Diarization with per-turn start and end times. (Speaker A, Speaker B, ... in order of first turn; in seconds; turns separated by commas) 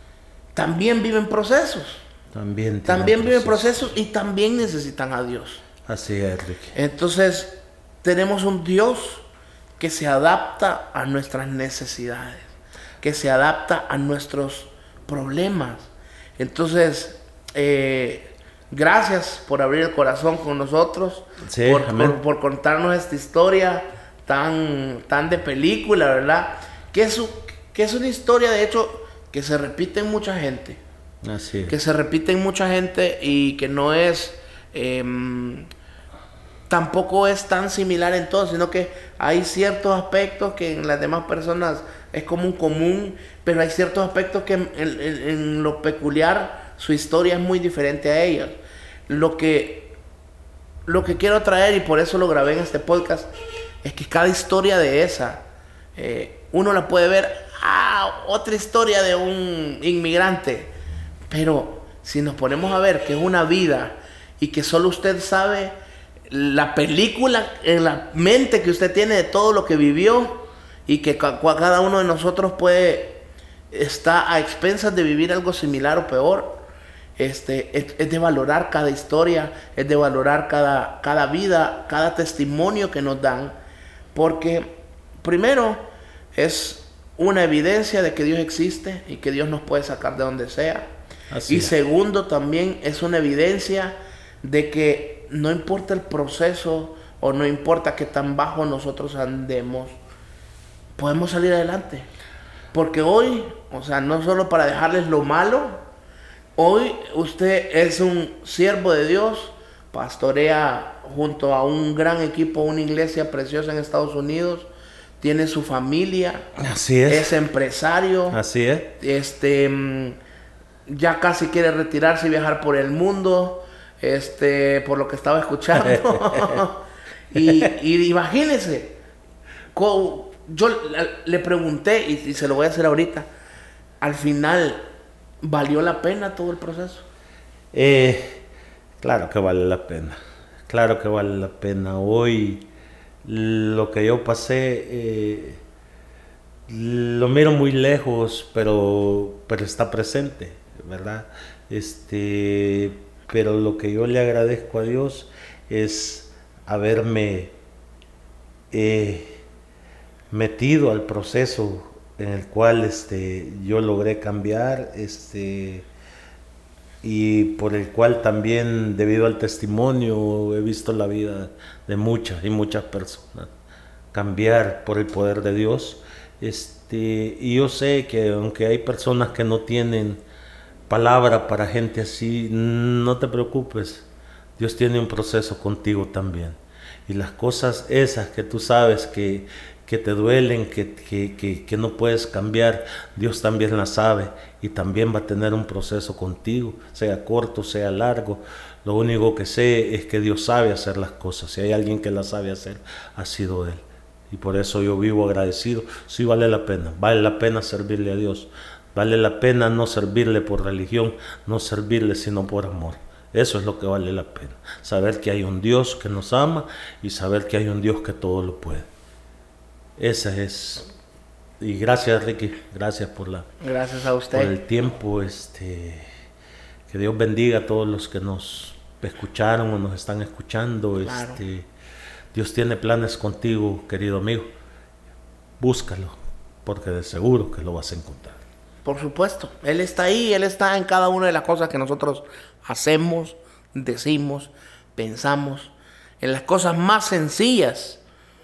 Speaker A: 0.6-2.0, Speaker B: 2.3-3.9, Speaker A: 2.9-5.6, Speaker B: 5.9-6.8, Speaker A: 6.7-9.3, Speaker A: 9.8-12.5, Speaker A: 13.0-30.8, Speaker B: 21.4-22.2, Speaker B: 31.2-31.8, Speaker A: 31.7-35.7, Speaker A: 36.7-48.6, Speaker A: 49.1-49.9, Speaker A: 50.9-53.3, Speaker A: 53.8-55.4, Speaker A: 56.0-60.7, Speaker A: 61.3-65.7, Speaker A: 66.3-76.6, Speaker A: 77.2-83.6, Speaker A: 84.1-85.8, Speaker A: 86.3-90.9, Speaker B: 91.3-91.7, Speaker A: 91.5-100.0, Speaker A: 101.0-102.1, Speaker A: 102.7-105.8, Speaker A: 106.6-114.7, Speaker A: 115.2-116.5, Speaker B: 116.6-117.3, Speaker A: 117.1-118.4, Speaker B: 118.3-118.9, Speaker A: 119.0-120.2, Speaker A: 120.9-129.0, Speaker B: 125.7-126.6, Speaker B: 127.4-127.7, Speaker A: 129.7-133.3, Speaker A: 134.0-134.8, Speaker A: 135.4-137.1, Speaker B: 137.7-138.4, Speaker B: 139.0-142.7, Speaker B: 143.2-145.6, Speaker B: 146.7-157.5, Speaker B: 158.7-159.4, Speaker B: 160.3-165.9, Speaker B: 167.0-173.5, Speaker B: 174.1-180.2, Speaker B: 180.9-218.9, Speaker B: 220.0-220.9, Speaker B: 221.6-223.5, Speaker A: 223.6-224.5, Speaker B: 224.3-226.1, Speaker B: 226.9-231.7, Speaker A: 231.0-231.4, Speaker B: 232.3-234.5, Speaker B: 235.6-238.4, Speaker A: 238.8-248.0